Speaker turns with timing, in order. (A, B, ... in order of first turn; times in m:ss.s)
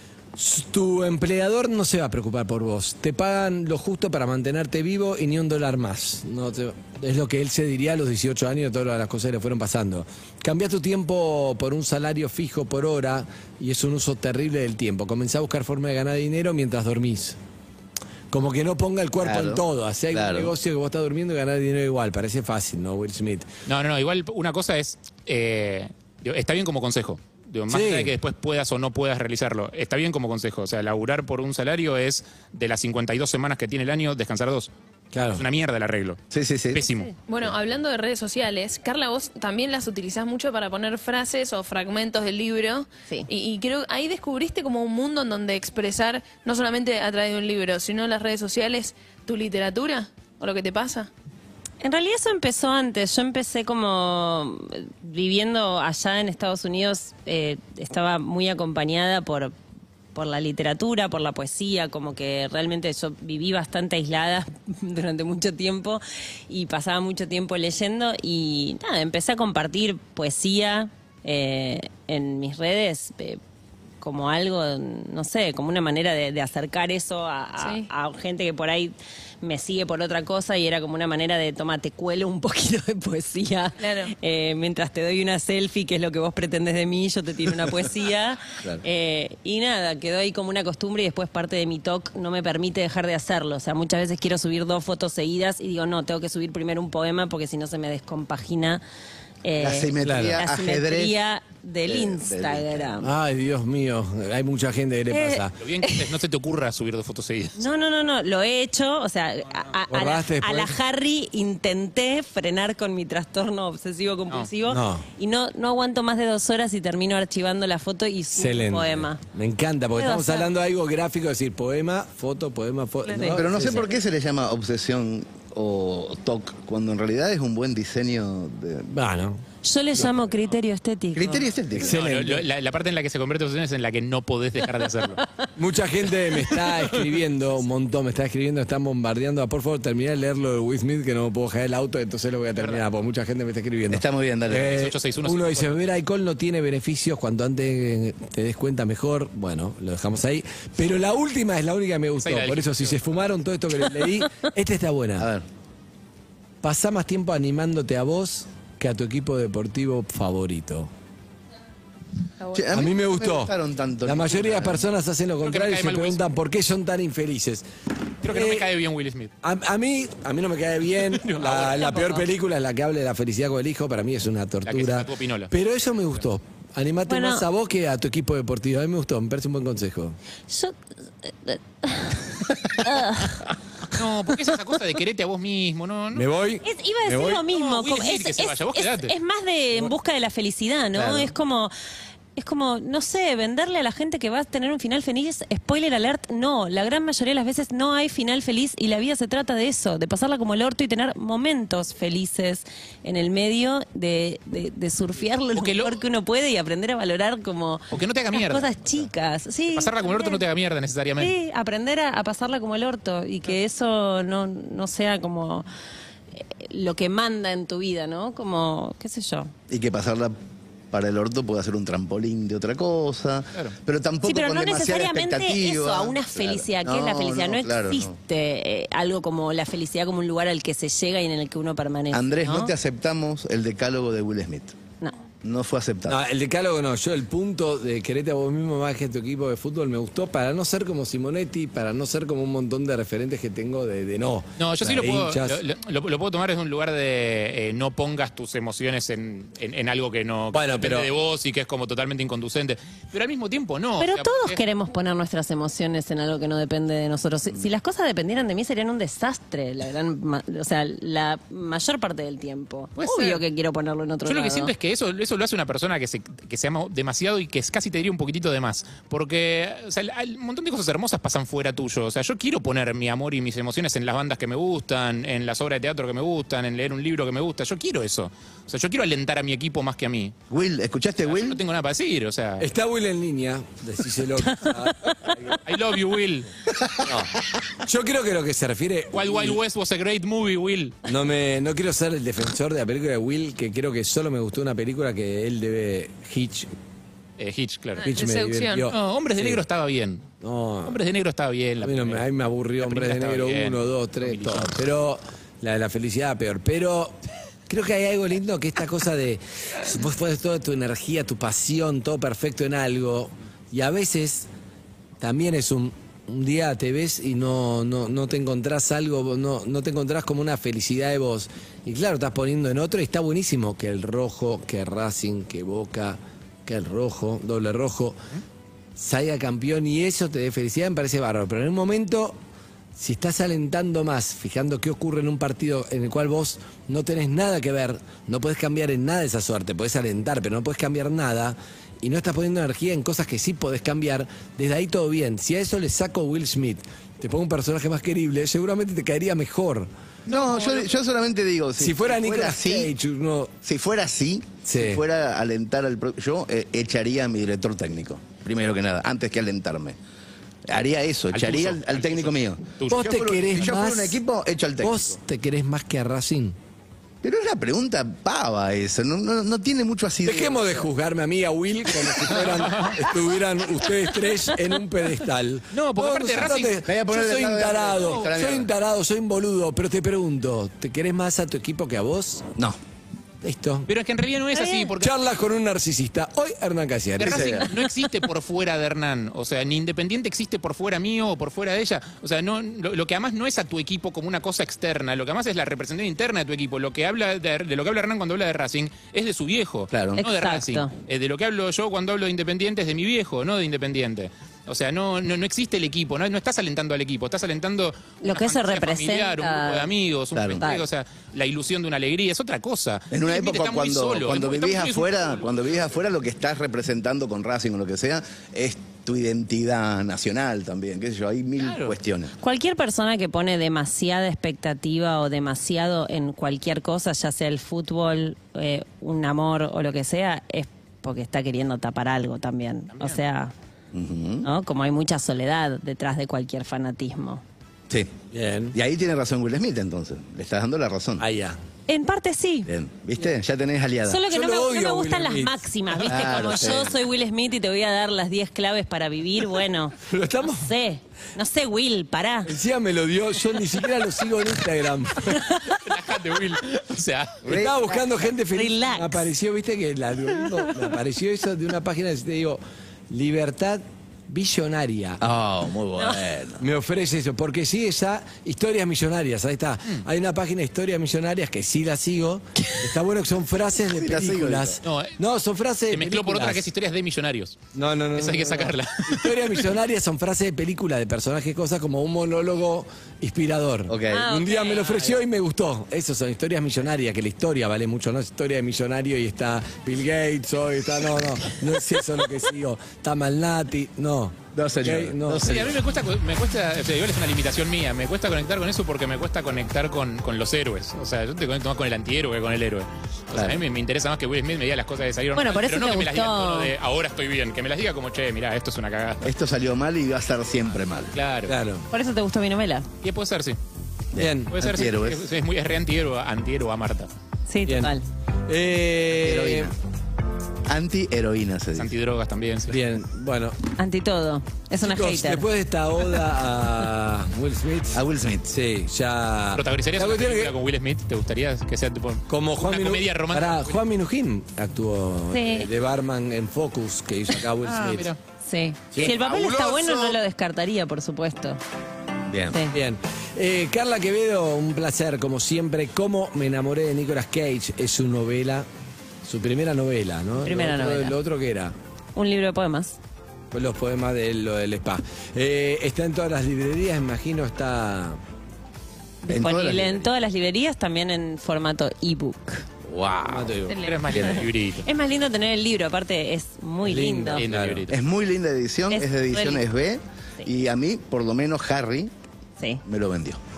0:00.3-0:17.4 A
0:18.3-0:23.5 A
0:19.2-0:19.6 B
0:20.1-0:20.5 B
0:23.7-0:34.7 C
0:27.7-0:28.1 A
0:35.1-0:35.4 A
0:35.3-0:36.2 C
0:36.3-0:36.9 B
0:36.7-0:37.1 C
0:37.3-0:51.1 D
0:51.8-0:59.5 E
1:00.1-1:13.4 E
1:14.0-1:38.8 E
1:17.6-1:17.9 D
1:23.8-1:24.1 D
1:39.4-1:43.1 E
1:39.6-1:41.2 B
1:40.0-1:40.4 A
1:41.8-1:42.9 B
1:43.0-1:45.6 A
1:45.1-1:46.0 E
1:45.6-1:47.6 C
1:47.6-1:59.2 E
1:49.9-1:50.8 A
1:54.7-1:55.0 A
1:58.3-2:03.8 A
2:00.0-2:00.5 E
2:03.1-2:03.4 E
2:03.2-2:08.9 B
2:08.9-2:09.4 A
2:09.6-2:11.4 E
2:11.1-2:12.0 B
2:11.8-2:12.4 A
2:11.8-2:15.2 C
2:15.6-2:35.3 A
2:16.7-2:17.1 C
2:22.6-2:22.8 C
2:23.9-2:24.8 B
2:24.6-2:25.8 C
2:32.2-2:33.2 C
2:35.2-2:35.4 B
2:36.6-2:40.9 A
2:42.5-2:44.8 B
2:42.7-2:47.6 A
2:45.4-2:46.3 C
2:48.2-2:48.7 A
2:48.2-2:49.3 C
2:49.4-3:00.2 A
2:51.1-2:52.1 C
2:51.8-2:52.2 E
2:54.6-2:55.5 C
2:57.1-2:57.4 E
3:00.5-3:02.3 E
3:02.8-3:03.4 E
3:03.9-3:06.3 C
3:06.1-3:07.4 A
3:06.6-3:11.7 E
3:07.5-3:09.1 C
3:10.9-3:11.3 B
3:12.4-3:30.4 E
3:25.5-3:26.0 C
3:27.9-3:29.1 C
3:29.7-3:31.3 C
3:31.2-3:35.7 E
3:36.4-3:39.5 E
3:39.7-3:40.3 B
3:40.9-3:48.1 B
3:44.2-3:52.7 E
3:52.1-3:54.8 B
3:55.4-3:56.2 B
3:56.0-4:05.6 A
4:04.6-4:14.6 C
4:10.5-4:11.1 A
4:14.0-4:24.7 E
4:23.0-4:23.4 C
4:24.2-4:40.3 C
4:40.5-4:41.6 B
4:41.2-4:42.6 C
4:42.6-4:45.6 A
4:45.6-4:46.5 C
4:47.0-4:49.6 A
4:49.1-4:51.0 C
4:51.0-4:56.7 A
4:57.4-4:58.1 C
4:58.0-4:58.9 D
4:58.0-4:59.6 A
4:58.9-5:00.3 C
5:00.4-5:01.0 A
5:00.8-5:02.2 C
5:01.8-5:14.5 A
5:02.8-5:04.8 C
5:15.2-5:28.2 A
5:29.0-5:32.4 A
5:32.9-5:49.9 A
5:50.2-5:52.9 B
5:51.8-5:53.5 A
5:53.6-6:00.0 B
5:54.6-5:55.0 A
6:00.7-6:05.1 B
6:01.3-6:03.0 C
6:02.9-6:04.2 A
6:04.8-6:06.6 A
6:07.2-6:10.8 B
6:10.2-6:22.5 A
6:12.4-6:13.0 C
6:15.7-6:16.8 C
6:16.8-6:18.7 B
6:18.0-6:18.3 C
6:23.4-6:23.9 A
6:23.9-6:25.2 C
6:24.6-6:24.9 E
6:25.0-6:27.7 A
6:27.2-6:55.5 C
6:27.2-6:27.6 B
6:39.9-6:40.2 B
6:40.2-6:40.9 E
6:48.2-6:49.9 E
6:50.3-6:50.6 B
6:50.6-6:50.8 E
6:53.1-7:02.3 B
7:01.6-7:01.9 C
7:02.4-7:13.5 E
7:13.9-7:14.5 B
7:14.4-7:17.4 E
7:18.3-7:18.8 A
7:18.7-7:21.2 B
7:21.2-7:21.6 A
7:21.9-7:22.7 E
7:22.7-7:24.2 B
7:24.1-7:32.6 E
7:24.2-7:26.2 A
7:26.1-7:27.0 B
7:30.0-7:30.7 A
7:32.4-7:35.6 A
7:35.3-7:35.7 E
7:35.8-7:37.4 C
7:37.4-7:38.0 B
7:37.4-7:45.2 A
7:38.5-7:39.2 E
7:45.2-7:46.6 B
7:46.6-7:56.6 A
7:53.9-7:54.8 B
7:54.8-7:55.2 C
7:55.9-7:59.7 C
7:57.7-8:15.8 A
8:03.9-8:04.3 B
8:04.1-8:05.1 E
8:14.5-8:15.7 B
8:15.4-8:29.3 C
8:23.3-8:23.6 B
8:25.3-8:26.7 E
8:29.2-8:31.1 B
8:31.1-8:31.5 C
8:31.4-8:31.9 A
8:31.9-8:32.9 E
8:33.0-8:33.6 C
8:34.1-8:35.3 B
8:34.2-8:34.5 A
8:34.5-8:37.1 C
8:37.5-8:38.0 E
8:37.6-8:37.9 A
8:38.5-8:39.7 A
8:39.2-8:39.7 B
8:40.7-8:41.9 B
8:41.7-8:42.8 C
8:42.7-8:43.6 A
8:43.8-8:45.4 E
8:44.8-8:50.5 A
8:47.9-8:48.5 B
8:49.5-8:53.8 C
8:52.3-8:58.1 A
8:55.3-8:55.7 E
8:57.6-8:58.2 C
8:58.4-9:01.6 E
8:58.9-9:00.1 A
9:02.3-9:02.6 B
9:02.5-9:02.8 E
9:02.6-9:08.7 A
9:09.2-9:11.7 A
9:10.4-9:11.2 E
9:12.2-9:13.0 E
9:13.5-9:18.2 A
9:19.2-9:22.6 E
9:19.3-9:20.1 B
9:22.8-9:23.6 B
9:23.2-9:23.8 A
9:23.7-9:24.4 D
9:23.8-9:24.8 C
9:24.8-9:27.4 E
9:26.8-9:27.9 A
9:27.4-9:28.0 C
9:27.9-9:32.1 B
9:28.9-9:29.6 E
9:32.8-9:33.4 B